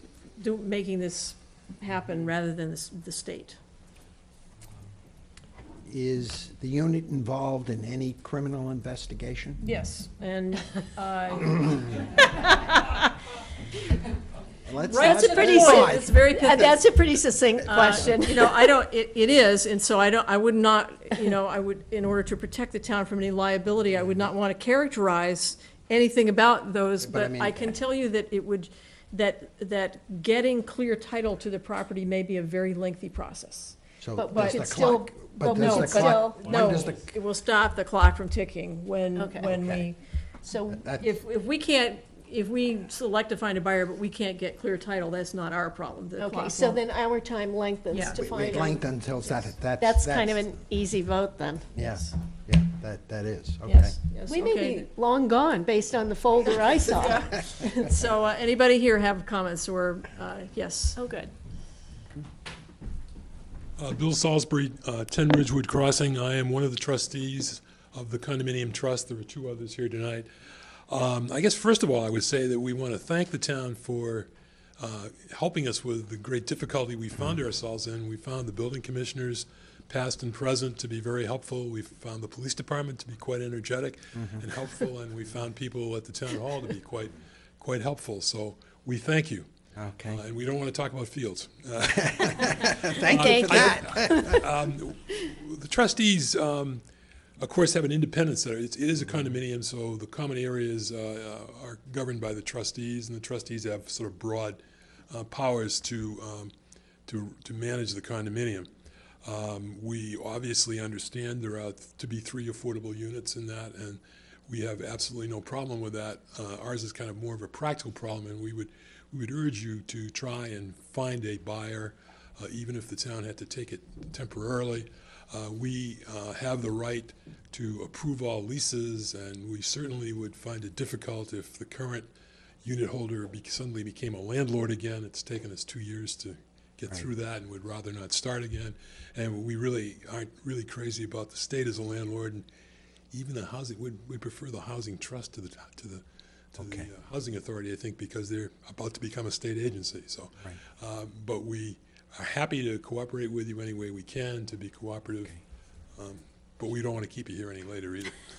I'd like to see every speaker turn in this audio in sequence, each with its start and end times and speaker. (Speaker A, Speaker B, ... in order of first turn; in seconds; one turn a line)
Speaker A: 0.4-3.6
Speaker B: 5.9-9.6
Speaker A: 9.6-13.1
Speaker B: 14.7-16.2
Speaker A: 14.8-16.8
Speaker C: 15.0-18.7
Speaker A: 17.7-33.8
Speaker B: 27.0-27.7
Speaker B: 34.0-37.1
Speaker C: 34.2-36.4
Speaker A: 34.3-40.0
Speaker C: 39.2-39.7
Speaker B: 39.5-39.8
Speaker C: 40.4-40.8
Speaker B: 40.7-41.1
Speaker A: 41.0-46.8
Speaker C: 46.2-51.7
Speaker A: 47.9-48.4
Speaker B: 48.1-50.4
Speaker B: 51.8-54.0
Speaker A: 51.8-52.1
Speaker A: 53.7-54.9
Speaker C: 54.3-57.5
Speaker A: 57.0-61.0
Speaker C: 61.0-61.3
Speaker D: 63.8-70.3
Speaker D: 70.9-89.5
Speaker B: 84.2-84.4
Speaker B: 89.8-90.2
Speaker D: 90.1-96.8
Speaker B: 91.8-94.5
Speaker C: 93.1-93.7
Speaker D: 97.4-104.6
Speaker D: 105.1-106.5
Speaker D: 107.1-108.7
Speaker D: 109.2-132.1
Speaker D: 132.6-142.4
Speaker D: 143.1-155.4
Speaker B: 146.6-146.9
Speaker D: 156.0-158.2